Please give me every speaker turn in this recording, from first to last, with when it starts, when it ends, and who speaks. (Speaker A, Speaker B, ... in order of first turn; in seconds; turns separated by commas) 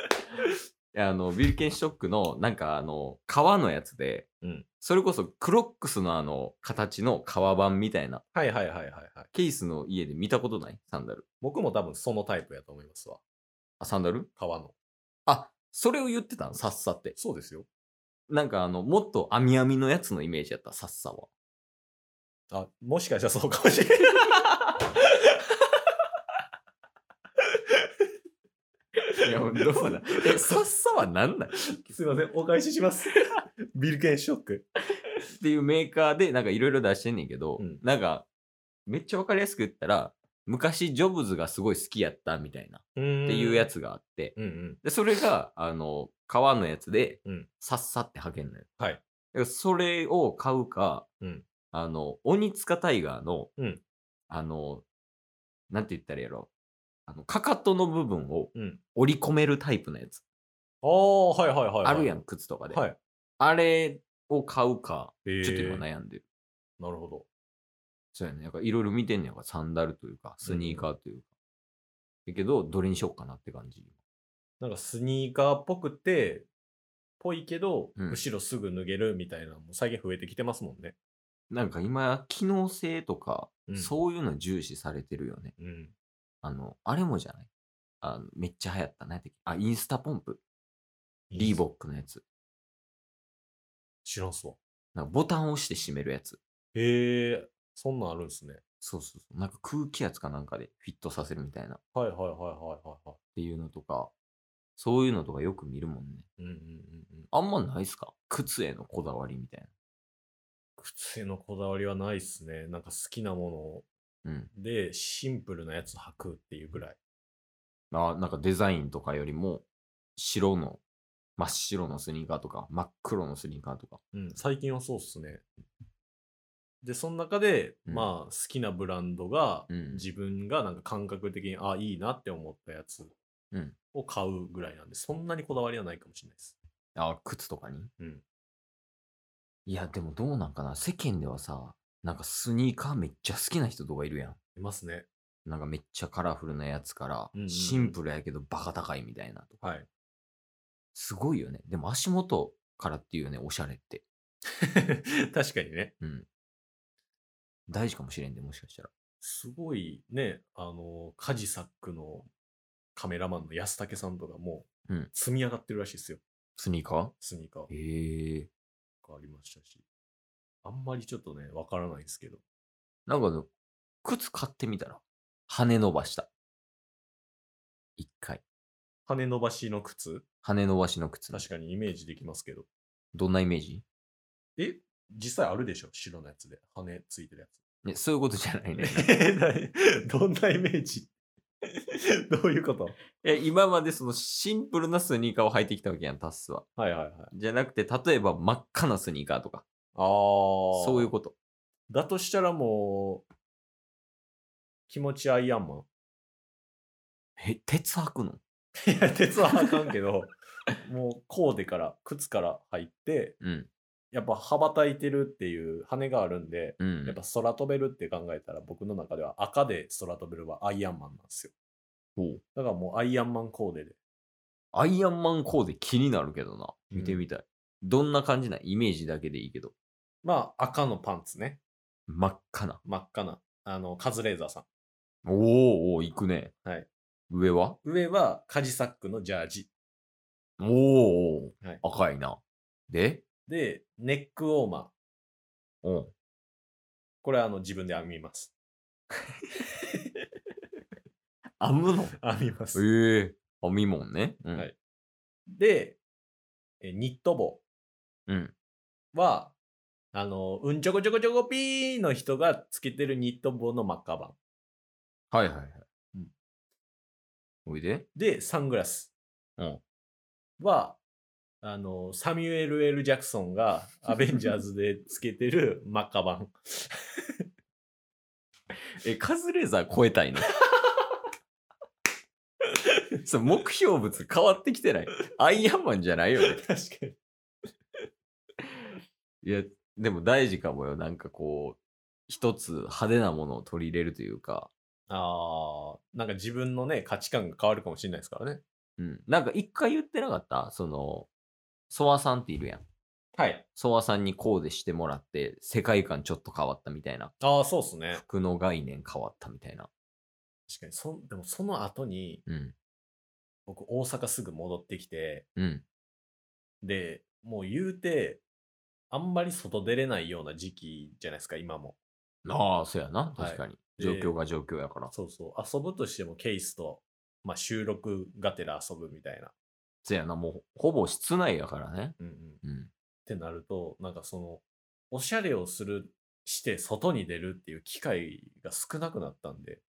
Speaker A: 0.9-4.3, Speaker A: 4.8-8.2, Speaker B: 8.3-9.3, Speaker A: 9.3-11.2, Speaker B: 11.4-13.2, Speaker A: 13.8-14.3, Speaker B: 14.4-14.7, Speaker A: 15.3-17.2, Speaker B: 17.2-17.7, Speaker A: 18.3-21.3, Speaker B: 22.5-24.4, Speaker A: 29.2-31.6, Speaker B: 29.6-29.9, Speaker B: 31.9-33.2, Speaker B: 33.7-34.7, Speaker A: 35.2-38.3, Speaker B: 37.6-37.8, Speaker A: 38.9-48.7, Speaker B: 43.0-43.7, Speaker B: 44.4-44.8, Speaker A: 49.3-51.1, Speaker B: 51.2-51.5, Speaker A: 51.7-53.5, Speaker B: 53.6-53.8, Speaker A: 54.3-54.9, Speaker A: 55.7-56.5, Speaker A: 57.1-60.2, Speaker B: 58.5-58.8, Speaker B: 60.8-62.2, Speaker A: 61.8-62.8, Speaker B: 62.7-63.0, Speaker A: 63.4-66.2, Speaker B: 65.3-65.9, Speaker B: 66.8-67.3, Speaker A: 68.1-71.3, Speaker B: 70.4-70.9, Speaker A: 72.3-74.0, Speaker B: 74.6-76.5, Speaker B: 77.2-81.0, Speaker A: 81.5-85.5, Speaker B: 83.7-83.9, Speaker B: 85.6-86.0, Speaker A: 86.4-87.5, Speaker A: 88.0-90.4, Speaker B: 91.3-91.6, Speaker A: 91.4-92.2, Speaker B: 94.0-94.6, Speaker A: 95.0-96.4, Speaker B: 96.8-98.6, Speaker A: 98.8-101.8, Speaker B: 101.9-103.2, Speaker A: 103.4-104.1, Speaker A: 104.8-106.3, Speaker B: 106.4-107.3, Speaker A: 107.3-109.7, Speaker B: 110.8-113.9, Speaker A: 114.2-114.5, Speaker B: 114.5-117.0, Speaker A: 117.9-119.6, Speaker A: 120.2-120.8, Speaker A: 121.4-124.0, Speaker B: 124.1-125.5, Speaker B: 126.8-133.1, Speaker A: 129.7-130.0, Speaker B: 133.9-136.6, Speaker A: 137.0-137.9, Speaker B: 138.0-138.2, Speaker A: 139.7-144.4, Speaker B: 144.6-145.1, Speaker A: 145.5-149.6, Speaker B: 147.3-148.0, Speaker B: 149.6-149.9, Speaker A: 150.9-154.0, Speaker B: 154.7-155.9, Speaker A: 156.0-156.3, Speaker A: 157.7-158.9, Speaker B: 159.2-162.3, Speaker B: 162.9-166.2, Speaker A: 166.6-167.1, Speaker B: 167.2-167.7, Speaker A: 167.7-168.5, Speaker B: 169.0-169.8, Speaker B: 170.6-172.4, Speaker A: 173.1-173.5, Speaker A: 174.0-176.3, Speaker A: 178.0-178.4, Speaker B: 179.1-180.2, Speaker A: 180.4-181.5, Speaker B: 181.3-182.7, Speaker A: 183.1-183.8, Speaker B: 184.6-187.6, Speaker A: 187.8-189.1, Speaker B: 188.8-191.1, Speaker B: 192.3-193.0, Speaker A: 193.2-196.7, Speaker B: 196.8-197.3, Speaker A: 197.3-199.6, Speaker B: 199.9-201.1, Speaker A: 200.7-201.3, Speaker B: 201.9-203.2, Speaker B: 204.9-205.9, Speaker A: 207.4-208.4, Speaker B: 208.8-213.4, Speaker A: 213.4-213.7, Speaker B: 214.1-221.5, Speaker A: 216.8-217.2, Speaker A: 222.2-222.4, Speaker B: 222.6-224.0, Speaker A: 224.7-229.7, Speaker B: 226.9-227.3, Speaker B: 230.2-231.6, Speaker A: 232.1-232.8, Speaker B: 232.8-234.7, Speaker A: 235.2-236.5, Speaker B: 236.6-236.9, Speaker A: 237.3-237.8, Speaker B: 237.8-239.7, Speaker A: 240.6-243.2, Speaker B: 243.5-244.9, Speaker A: 245.8-246.1, Speaker B: 247.2-248.5, Speaker A: 251.6-252.2, Speaker B: 252.2-252.8, Speaker A: 252.8-254.7, Speaker B: 255.5-256.0, Speaker B: 256.8-257.6, Speaker A: 258.3-258.5, Speaker B: 259.1-259.6, Speaker B: 260.1-264.4, Speaker A: 265.3-265.8, Speaker A: 267.7-268.1, Speaker B: 268.1-269.1, Speaker B: 270.6-271.0, Speaker B: 271.6-277.2, Speaker A: 279.0-280.5, Speaker A: 283.2-286.6, Speaker B: 286.5-287.2, Speaker A: 289.4-294.7, Speaker B: 295.1-298.6, Speaker A: 299.0-301.3, Speaker A: 301.9-302.8, Speaker B: 303.4-303.6, Speaker A: 303.8-307.4, Speaker B: 307.4-308.2, Speaker A: 308.1-309.9, Speaker B: 310.7-312.4, Speaker A: 312.5-312.7, Speaker B: 313.7-315.5, Speaker A: 315.6-315.8, Speaker B: 316.8-318.4, Speaker B: 319.1-322.0, Speaker A: 322.4-325.1, Speaker B: 323.4-324.4, Speaker B: 325.1-329.5, Speaker A: 330.0-332.9, Speaker B: 332.2-332.6, Speaker B: 333.3-339.8